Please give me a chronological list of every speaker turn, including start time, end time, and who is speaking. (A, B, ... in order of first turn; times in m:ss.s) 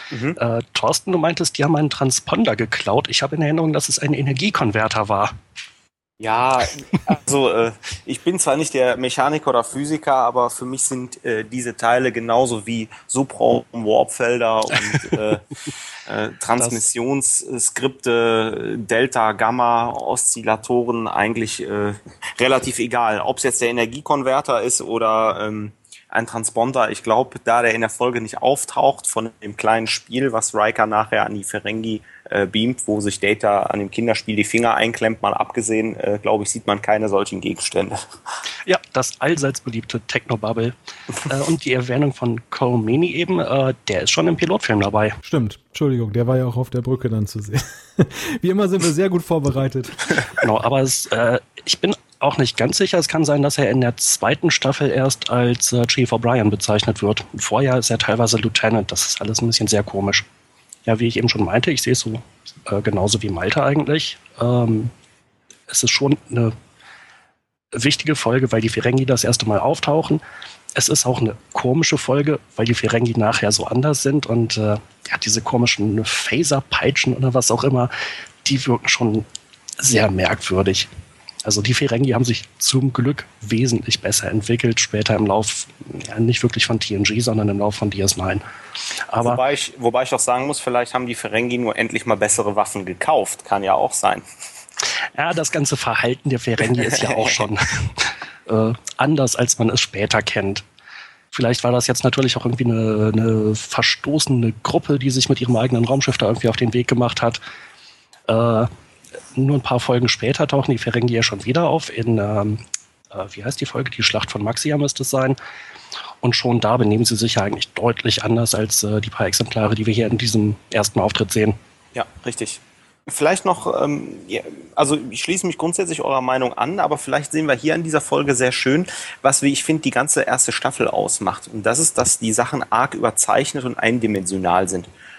0:00.1-0:00.4 A
0:00.4-0:05.3 B
0:06.2-0:15.4 A
0:16.0-0:38.0 A
0:16.6-0:16.8 B
0:38.6-0:40.7 B
0:41.2-0:45.2 B
0:45.2-0:50.1 C
0:50.4-1:00.2 B
1:00.8-1:04.9 B
1:05.7-1:06.5 B
1:07.7-1:10.2 B
1:10.7-1:17.9 B
1:18.4-1:19.2 B
1:19.8-1:20.9 B
1:21.4-1:28.4 B
1:29.1-1:29.4 B
1:29.2-1:34.2 A
1:35.1-1:40.6 B
1:41.3-1:47.4 B
1:48.3-1:48.7 B
1:49.3-1:55.4 B
1:56.2-2:01.6 B
2:01.9-2:14.9 A